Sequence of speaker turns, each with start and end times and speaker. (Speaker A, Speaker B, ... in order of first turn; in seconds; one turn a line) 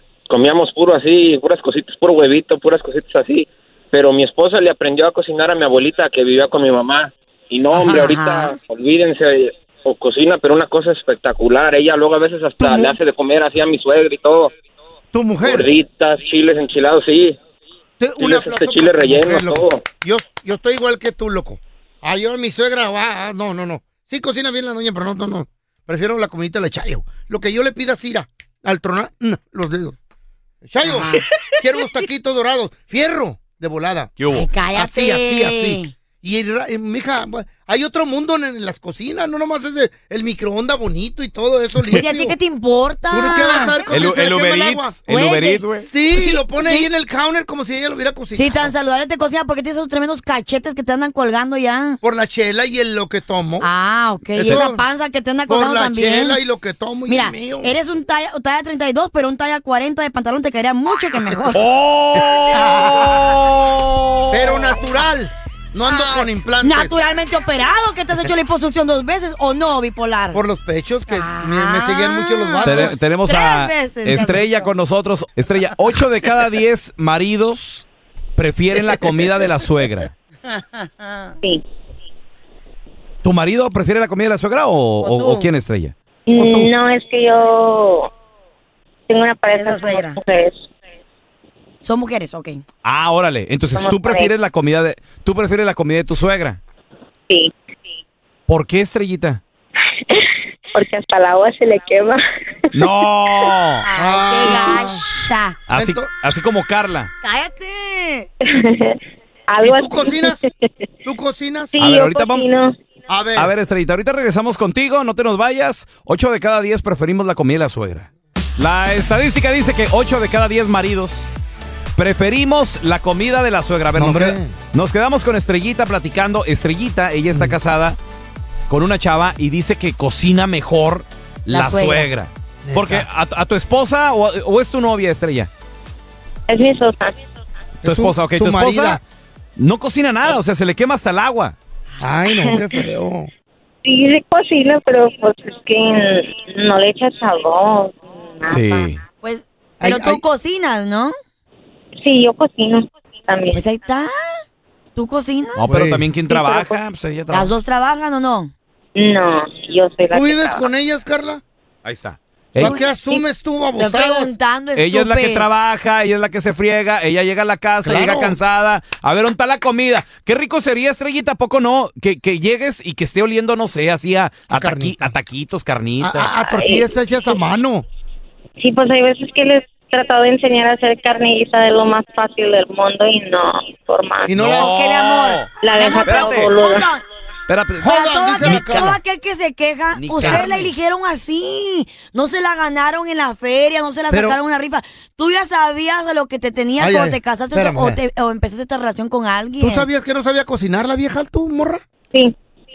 Speaker A: 0.3-9.2
Speaker B: 7.7-8.1
Speaker C: 7.8-8.5
Speaker A: 9.9-14.5
Speaker B: 12.6-12.9
Speaker B: 15.1-15.7
Speaker A: 15.4-17.4
Speaker B: 18.0-30.0
Speaker A: 18.2-19.8
Speaker B: 30.6-34.1
Speaker C: 30.8-31.3
Speaker D: 34.2-34.5
Speaker C: 34.3-35.9
Speaker B: 34.7-42.4
Speaker C: 41.9-43.8
Speaker B: 43.1-45.0
Speaker D: 43.9-45.9
Speaker C: 45.1-46.9
Speaker B: 45.8-48.7
Speaker C: 48.3-52.0
Speaker B: 52.0-53.7
Speaker C: 53.6-56.4
Speaker B: 54.3-54.8
Speaker B: 55.5-57.7
Speaker C: 57.0-61.6
Speaker D: 61.5-64.6
Speaker C: 62.5-63.3
Speaker B: 64.3-67.0
Speaker C: 65.8-70.4
Speaker B: 70.3-73.0
Speaker C: 71.1-74.7
Speaker D: 72.6-80.1
Speaker C: 80.5-81.3
Speaker D: 83.2-85.9
Speaker C: 85.0-85.5
Speaker E: 86.3-88.1
Speaker B: 86.3-86.7
Speaker E: 89.1-90.6
Speaker C: 89.5-90.2
Speaker C: 91.8-92.6
Speaker D: 92.8-96.6
Speaker E: 93.7-94.3
Speaker D: 98.5-99.4
Speaker E: 100.1-102.9
Speaker D: 102.7-103.8
Speaker C: 103.8-105.6
Speaker B: 103.9-105.1
Speaker D: 105.7-107.1
Speaker B: 105.7-106.1
Speaker C: 107.2-108.3
Speaker E: 108.6-109.0
Speaker E: 109.5-110.7
Speaker B: 109.6-110.4
Speaker B: 111.0-111.7
Speaker E: 111.7-112.7
Speaker D: 111.8-112.5
Speaker B: 113.1-113.5
Speaker D: 113.3-118.1
Speaker D: 118.6-121.3
Speaker D: 122.0-128.0
Speaker B: 123.9-124.5
Speaker D: 128.7-135.5
Speaker C: 131.5-132.1
Speaker B: 132.6-133.1
Speaker E: 136.5-137.1
Speaker B: 137.8-139.0
Speaker D: 137.8-139.0
Speaker D: 139.6-141.6
Speaker B: 142.0-143.3
Speaker E: 142.3-142.8
Speaker E: 143.8-148.9
Speaker D: 148.4-149.0
Speaker C: 149.2-151.1
Speaker B: 149.8-150.2
Speaker E: 152.0-153.6
Speaker C: 153.5-154.4
Speaker C: 154.9-155.7
Speaker D: 155.6-157.5
Speaker B: 155.7-156.1
Speaker E: 156.3-156.8
Speaker C: 157.3-158.5
Speaker E: 158.9-160.7
Speaker B: 160.1-161.4
Speaker D: 161.8-162.8
Speaker B: 162.6-164.3
Speaker C: 162.6-163.2
Speaker C: 163.8-165.5
Speaker D: 164.8-176.3
Speaker B: 167.8-168.4
Speaker B: 174.5-175.1
Speaker B: 176.0-177.8
Speaker E: 176.3-176.9
Speaker E: 178.6-184.3
Speaker B: 184.3-184.8
Speaker D: 184.3-185.5
Speaker C: 184.4-187.0
Speaker E: 185.6-186.9
Speaker D: 186.0-186.5
Speaker D: 187.5-189.0
Speaker B: 187.8-189.0
Speaker C: 187.9-199.9
Speaker D: 189.9-190.7
Speaker B: 190.2-190.7
Speaker B: 194.1-194.4
Speaker B: 196.8-198.0
Speaker B: 199.6-201.8